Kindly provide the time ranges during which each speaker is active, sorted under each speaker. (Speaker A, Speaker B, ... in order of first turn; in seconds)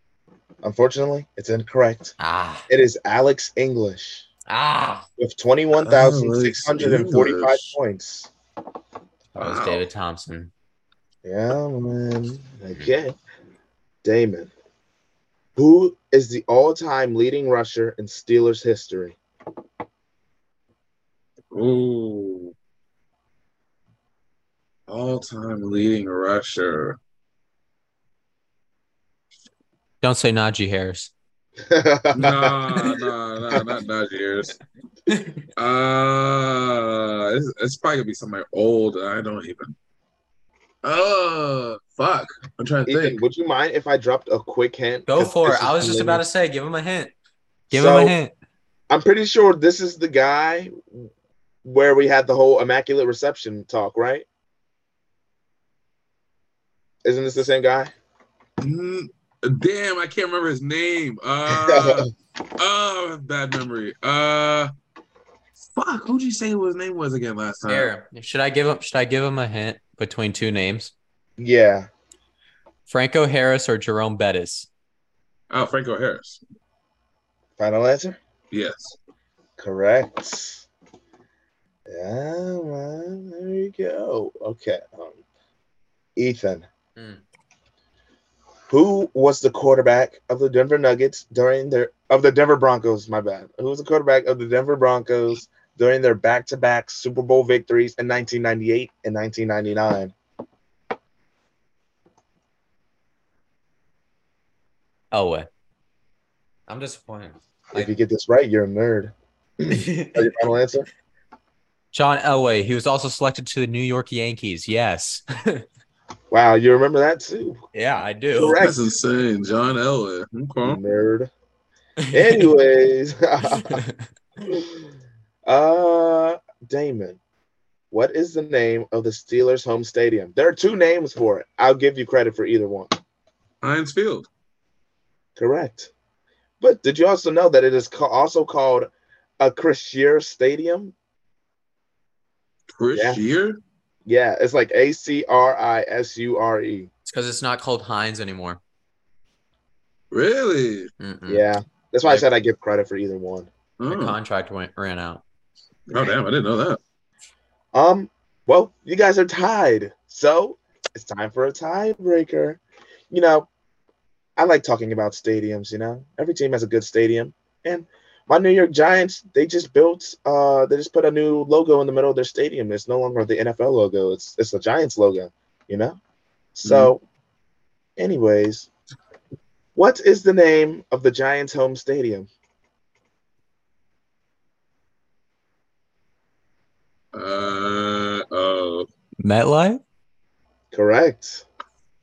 Speaker A: 0.6-2.1, 2.7-4.3, 5.2-8.3, 11.2-13.1, 14.0-14.5, 15.6-19.2, 31.6-33.7, 42.9-46.2, 47.7-48.2, 48.9-51.1, 51.6-54.2, 57.0-57.9, 61.5-62.1, 71.4-71.9, 77.6-78.2, 79.6-80.7, 81.9-85.2, 86.2-86.7, 88.7-100.1, 107.7-110.9, 116.3-117.6, 118.4-118.8, 120.6-121.3, 122.1-123.8, 124.5-124.9, 125.5-127.2, 127.9-133.0, 135.4-135.9, 136.6-140.9, 142.9-143.2, 144.1-146.9, 151.3-153.5, 157.7-162.6, 163.1-163.5, 164.4-176.0, 176.6-177.0, 178.0-178.7, 179.8-182.3, 190.7-191.4
Speaker B: 2.2-2.7, 4.5-5.1, 9.3-10.5, 30.0-31.1, 35.1-35.5, 45.1-47.1, 47.7-48.3, 67.6-70.9, 72.9-74.7, 87.0-87.2, 105.1-105.5, 106.7-107.9, 109.7-110.4, 111.9-115.6, 117.7-118.6, 122.0-122.5, 123.5-124.1, 147.0-148.6, 151.0-151.5, 153.9-155.2, 189.2-189.8
Speaker C: 5.8-7.8, 9.4-9.8, 21.5-22.5, 24.9-27.0, 32.1-34.6, 35.6-39.8, 40.8-43.2, 58.6-64.7, 65.6-67.9, 75.5-76.4, 78.5-79.0, 118.6-120.8, 133.6-134.3, 142.8-143.6, 150.1-150.9, 153.8-154.2, 155.9-156.8, 176.6-176.9, 187.1-188.9